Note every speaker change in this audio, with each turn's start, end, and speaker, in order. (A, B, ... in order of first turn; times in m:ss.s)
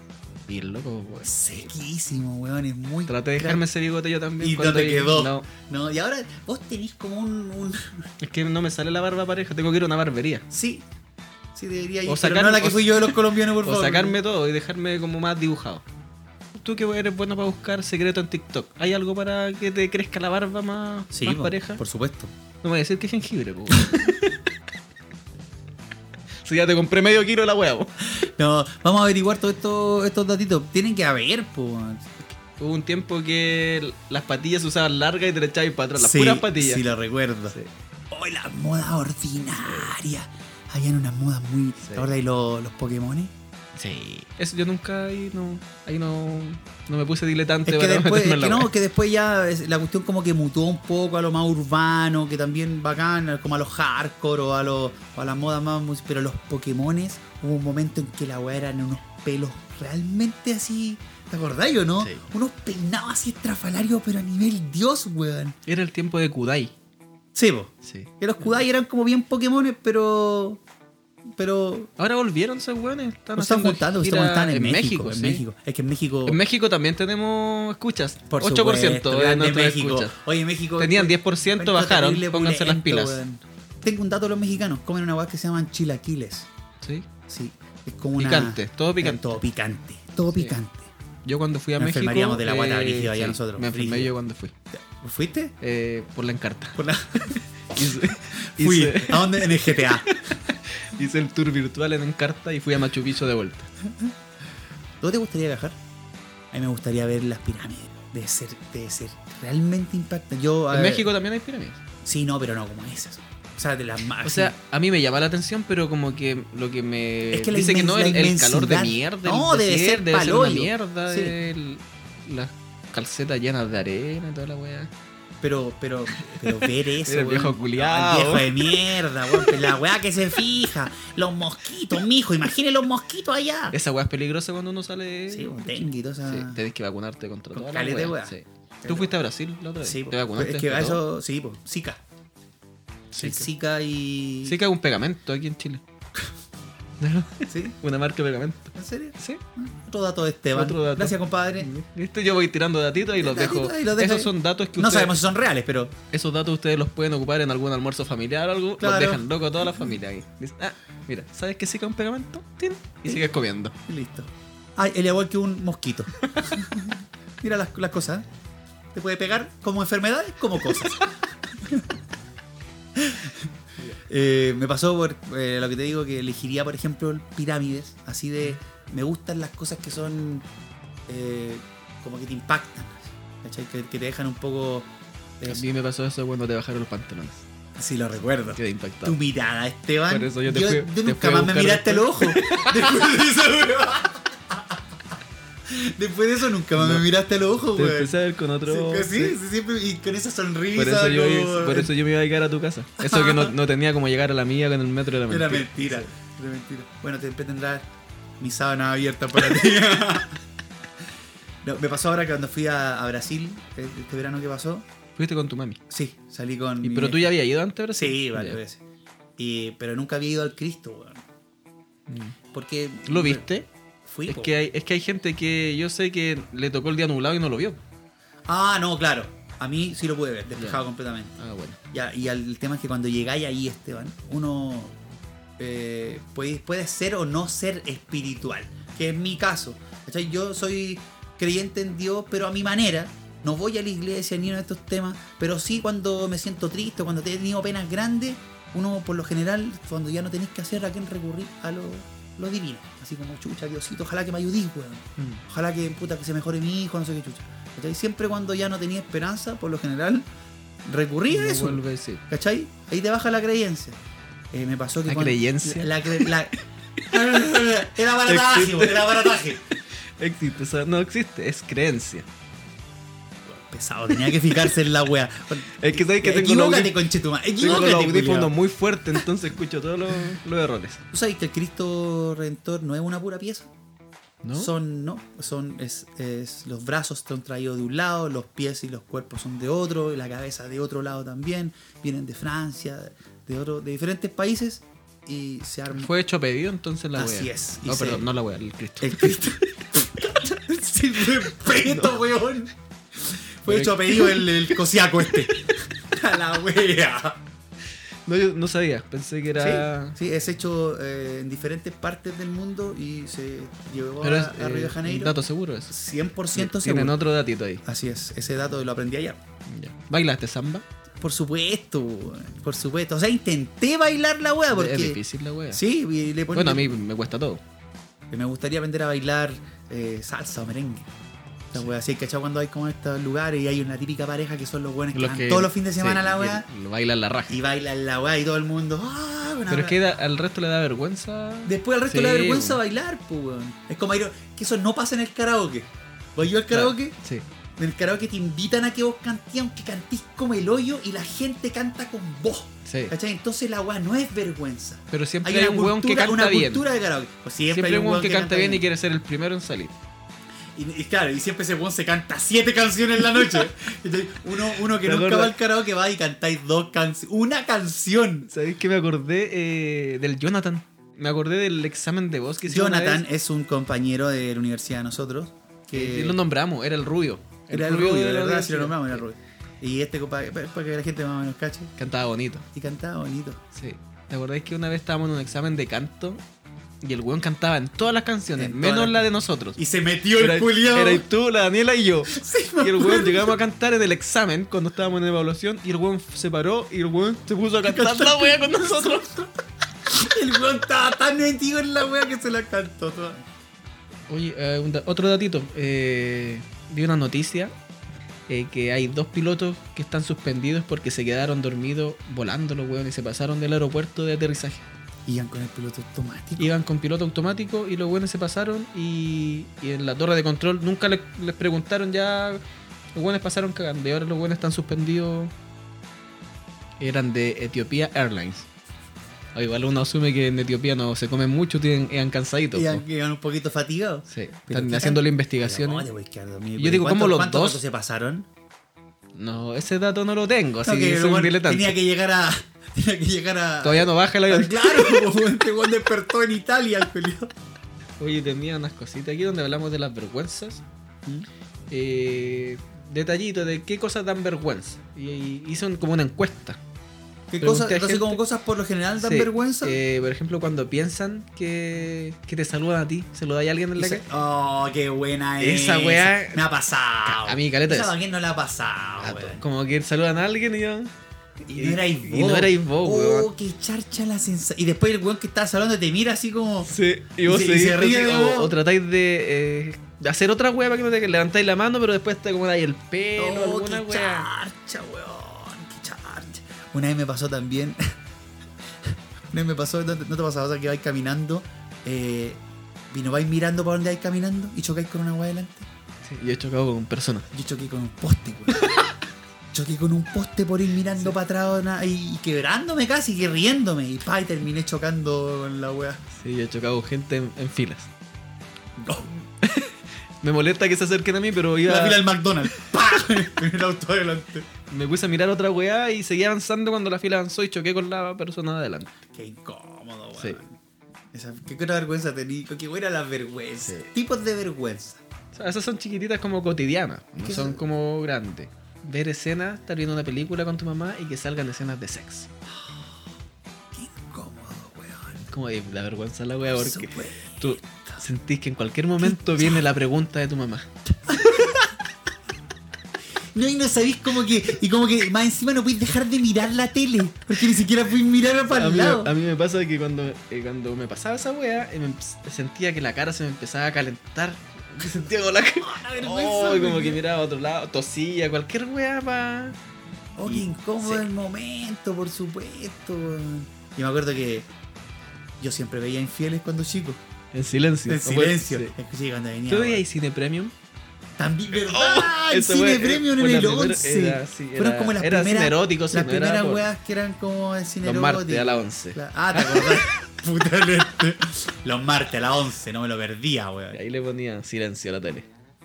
0:00.5-0:01.7 A
0:01.2-0:03.6 B
0:03.1-0:05.5 A
0:04.4-0:08.1 B
0:08.2-0:10.4 A
0:10.5-0:10.9 B
0:11.5-0:14.2 B
0:12.1-0:15.8 A
0:16.6-0:21.8 A
0:21.1-0:22.3 B
0:22.6-0:24.5 A
0:26.4-0:27.9 A
0:28.0-0:32.3 B
0:32.6-0:36.8 A
0:36.0-0:37.6 B
0:38.1-0:43.3 B
0:39.6-0:39.9 A
0:41.8-0:42.1 A
0:43.8-0:48.7 A
0:47.7-1:05.6 B
1:02.0-1:02.3 A
1:05.7-1:06.7 A
1:07.4-1:10.6 B
1:07.8-1:08.6 A
1:11.3-1:11.9 B
1:12.0-1:15.4 A
1:13.4-1:16.4 B
1:16.3-1:20.2 A
1:18.3-1:26.5 B
1:20.8-1:23.2 A
1:26.8-1:27.1 A
1:27.3-1:30.9 B
1:28.2-1:29.4 A
1:31.2-1:34.5 A
1:31.8-1:34.1 B
1:34.7-1:35.6 B
1:35.6-1:43.7 A
1:36.8-1:40.1 B
1:45.0-1:45.8 B
1:46.5-1:51.1 B
1:50.7-1:51.8 A
1:52.0-1:54.5 B
1:54.2-2:04.9 A
1:57.3-2:01.4 B
2:05.4-2:13.8 B
2:06.2-2:09.6 A
2:13.7-2:21.0 A
2:15.3-2:16.6 B
2:17.5-2:19.2 B
2:19.8-2:22.0 B
2:23.1-2:23.5 A
2:23.2-2:24.6 B
2:24.4-2:25.8 A
2:27.0-2:29.4 A
2:27.5-2:27.8 B
2:28.8-2:31.7 B
2:30.5-2:35.2 A
2:33.2-2:35.9 B
2:36.1-2:43.8 A
2:38.8-2:40.0 B
2:43.9-2:48.3 B
2:48.9-2:51.9 B
2:53.0-2:53.5 B
2:54.1-3:00.5 B
3:01.1-3:05.6 B
3:05.5-3:07.4 A
3:07.8-3:14.8 B
3:08.6-3:09.2 A
3:10.1-3:13.0 A
3:15.7-3:21.9 B
3:16.8-3:17.0 A
3:17.8-3:19.4 A
3:20.8-3:26.1 A
3:23.0-3:23.5 B
3:25.3-3:27.9 B
3:28.4-3:30.4 B
3:31.6-3:34.9 B
3:35.2-3:35.8 A
3:35.9-3:37.3 B
3:36.8-3:38.6 A
3:38.0-3:38.8 B
3:39.4-3:41.2 B
3:42.1-3:42.4 A
3:42.5-3:43.4 B
3:43.1-3:43.7 A
3:44.0-3:44.5 B
3:44.3-3:47.8 A
3:48.5-3:51.4 B
3:50.6-3:50.8 A
3:51.4-3:51.8 A
3:51.9-3:55.0 B
3:55.6-4:20.3 B
4:15.2-4:15.4 A
4:20.8-4:24.0 B
4:21.3-4:22.2 A
4:24.5-4:29.6 B
4:25.1-4:26.3 A
4:27.0-4:32.3 A
4:33.5-4:38.5 B
4:34.1-4:34.7 A
4:35.7-4:37.0 A
4:37.6-4:41.0 A
4:41.1-4:43.7 B
4:44.4-4:44.7 A
4:44.6-4:56.1 B
4:55.9-4:59.9 A
4:57.2-4:58.3 B
4:59.0-5:07.4 B
5:01.4-5:02.2 A
5:03.7-5:04.8 A
5:08.3-5:10.2 A
5:09.6-5:15.4 B
5:14.2-5:15.9 A
5:15.9-5:17.2 B
5:16.5-5:17.8 A
5:17.8-5:19.4 B
5:19.7-5:20.8 A
5:21.2-5:25.2 B
5:24.7-5:25.8 A
5:25.7-5:26.9 B
5:26.5-5:27.6 A
5:28.3-5:31.1 B
5:31.7-5:36.7 B
5:35.1-5:37.6 A
5:37.5-5:40.0 B
5:39.7-5:42.8 A
5:41.7-5:47.2 B
5:46.7-5:47.4 A
5:47.8-5:58.8 B
5:52.8-5:53.1 A
5:55.1-5:56.8 A
5:57.7-6:00.0 A
6:00.7-6:08.5 B
6:05.0-6:05.5 A
6:08.5-6:13.2 A
6:12.6-6:16.4 B
6:15.9-6:19.2 A
6:17.7-6:21.9 B
6:22.0-6:22.7 A
6:22.7-6:23.6 B
6:23.7-6:26.4 A
6:27.0-6:29.8 A
6:28.6-6:29.2 B
6:29.8-6:31.2 B
6:30.4-6:39.4 A
6:32.3-6:33.6 B
6:37.8-6:39.5 B
6:40.1-6:43.4 B
6:44.3-6:47.7 A
6:48.5-6:54.9 A
6:55.3-6:56.8 B
6:56.6-7:02.6 A
7:03.2-7:05.5 A
7:07.0-7:08.7 A
7:09.6-7:13.0 A
7:12.7-7:18.5 B
7:14.3-7:16.1 A
7:16.8-7:17.8 A
7:19.4-7:22.0 A
7:20.8-7:27.5 B
7:23.8-7:25.4 A
7:28.2-7:30.8 A
7:31.9-7:36.8 A
7:37.5-7:40.0 B
7:37.6-7:38.4 A
7:39.2-7:44.3 A
7:44.0-7:49.6 B
7:45.6-7:46.6 A
7:47.2-7:48.1 A
7:49.2-7:51.1 A
7:51.7-7:53.5 A
7:51.7-7:56.9 B
7:56.8-8:04.5 A
7:57.4-7:58.8 B
8:03.4-8:08.0 B
8:09.0-8:15.9 B
8:16.2-8:17.5 A
8:17.5-8:18.9 B
8:18.7-8:19.1 A
8:19.7-8:26.2 B
8:26.4-8:28.1 A
8:29.0-8:29.5 B
8:29.6-8:32.2 A
8:31.8-8:34.7 B
8:34.8-8:39.2 A
8:39.3-8:40.8 B
8:40.4-8:40.6 A
8:41.3-8:45.2 B
8:43.8-8:44.1 A
8:45.5-8:52.5 A
8:47.4-8:47.8 B
8:52.8-8:53.2 B
8:53.9-8:55.4 B
8:55.5-9:00.9 A
8:56.7-8:58.2 B
8:59.2-8:59.8 B
9:01.3-9:01.8 B
9:03.5-9:09.3 B
9:08.7-9:19.8 A
9:15.8-9:17.2 B
9:20.4-9:24.7 B
9:20.5-9:21.3 A
9:25.6-9:27.2 B
9:27.5-9:28.9 A
9:28.1-9:30.0 B
9:29.7-9:30.7 A
9:31.4-9:44.0 B
9:31.7-9:36.9 A
9:38.0-9:40.2 A
9:43.9-9:45.5 A